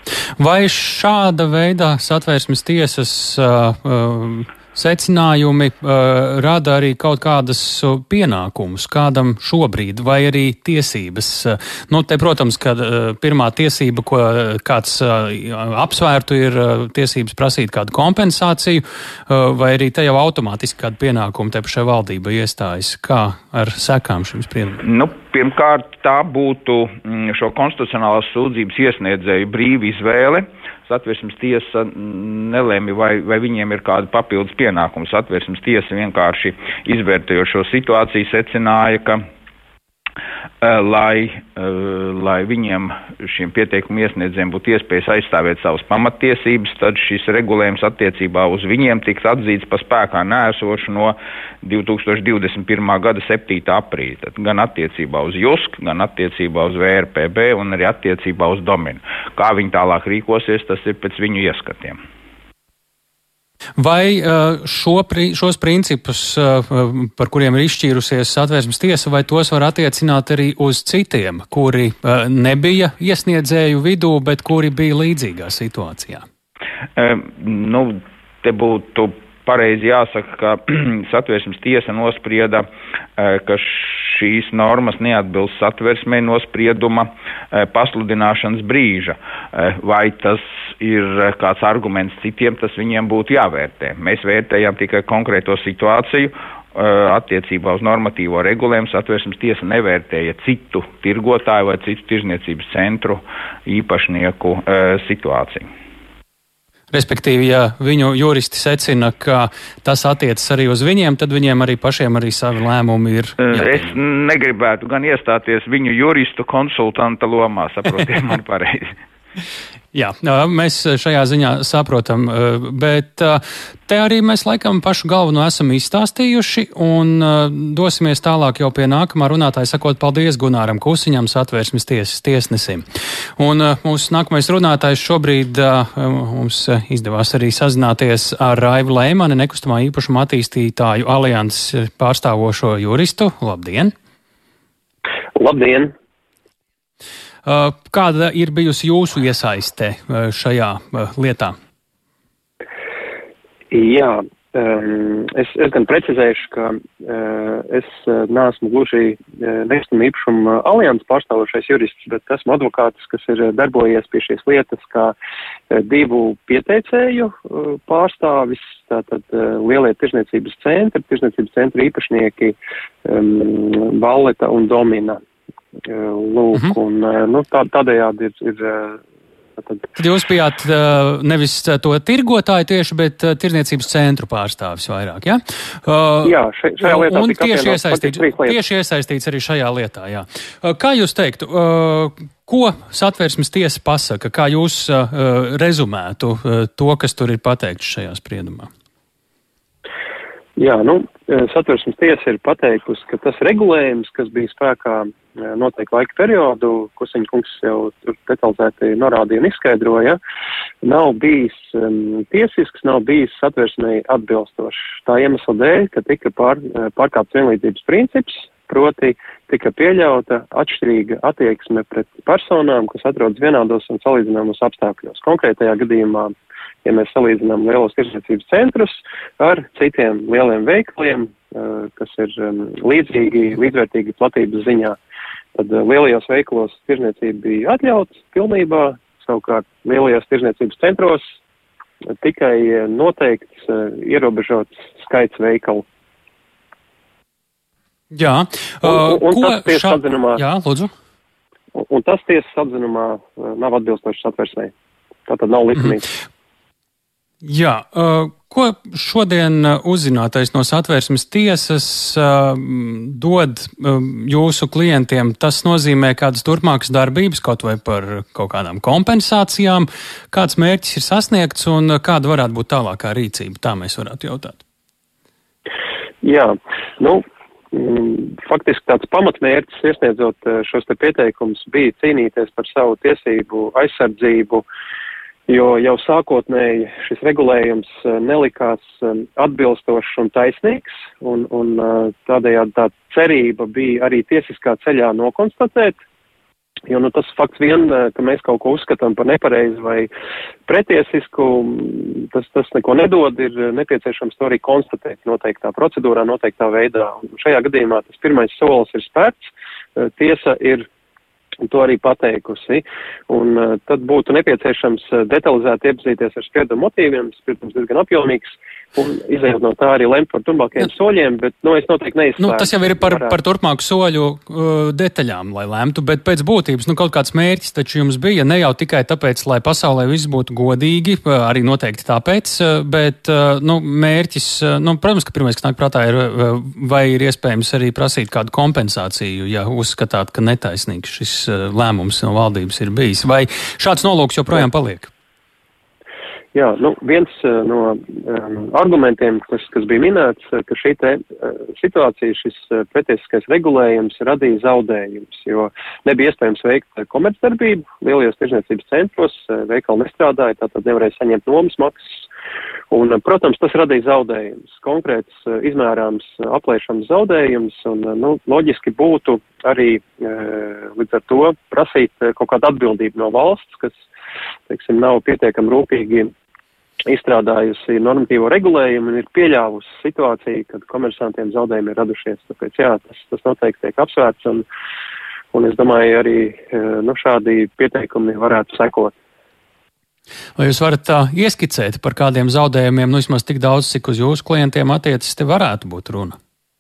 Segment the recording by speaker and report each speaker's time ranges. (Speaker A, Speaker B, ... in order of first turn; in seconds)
Speaker A: 0.4-24.8, 63.8-76.3, 106.9-113.9, 119.9-132.8, 133.4-143.9, 147.4-151.6, 180.0-198.7, 248.1-250.9, 257.4-274.6, 322.4-345.1, 390.6-396.4
Speaker B: 24.8-39.2, 40.6-62.0, 77.0-82.7, 83.2-105.7, 113.4-118.9
Speaker C: 145.4-145.9, 153.7-165.2, 165.7-175.2, 175.9-179.0, 179.6-179.8, 186.2-188.6, 200.6-210.2, 210.8-226.3, 226.8-235.0, 235.6-241.2, 242.2-245.8, 248.8-250.4, 251.7-254.7, 255.3-256.1, 276.2-284.6, 285.5-296.0, 296.9-300.1, 300.7-309.4, 310.0-310.9, 311.6-323.4, 346.5-362.2, 362.9-374.0, 374.7-376.3, 377.1-384.7, 385.5-389.1